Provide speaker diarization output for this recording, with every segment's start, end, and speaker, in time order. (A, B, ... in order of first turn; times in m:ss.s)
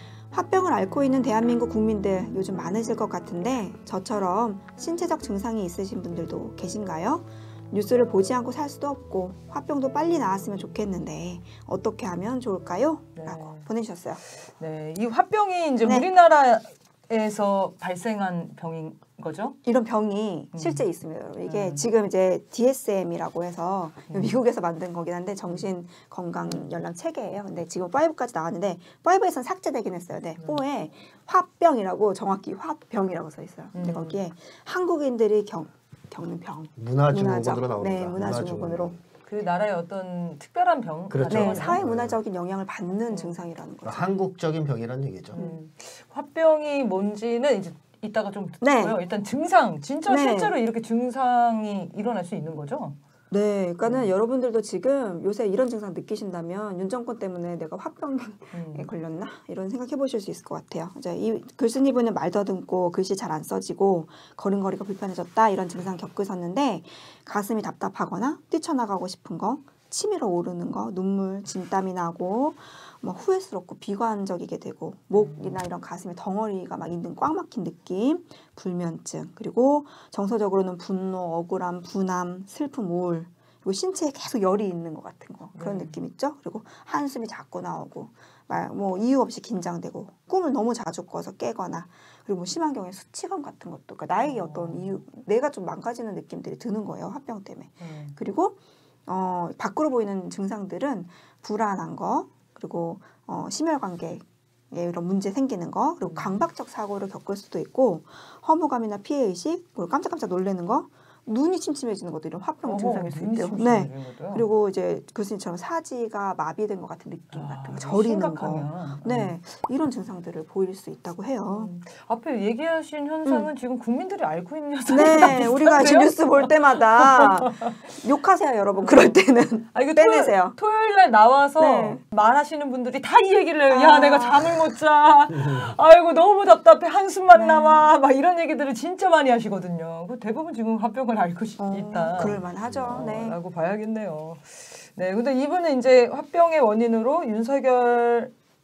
0:00.3-0:14.2 A
0:13.2-0:13.7 B
0:14.2-0:19.6 B
0:19.6-0:38.9 A
0:20.5-0:20.8 B
0:21.4-0:21.8 B
0:33.7-0:34.2 B
0:36.8-0:39.0 C
0:39.2-0:41.8 B
0:41.1-0:42.2 C
0:41.3-0:44.1 A
0:43.8-0:45.4 C
0:45.3-0:53.0 B
0:48.6-0:49.0 A
0:50.1-0:50.5 A
0:53.3-2:01.7 A
0:58.5-0:58.9 B
1:15.1-1:15.6 B
1:25.5-1:26.0 B
1:34.2-1:34.9 B
1:37.8-1:38.1 B
1:46.0-1:46.4 B
1:52.6-1:54.4 B
1:57.3-1:59.3 B
2:01.5-2:08.0 B
2:04.9-2:10.6 A
2:08.8-2:09.2 B
2:09.7-2:28.3 B
2:11.6-2:12.0 A
2:13.7-2:14.7 A
2:15.4-2:15.7 C
2:17.3-2:17.9 A
2:21.6-2:23.4 A
2:22.2-2:23.1 C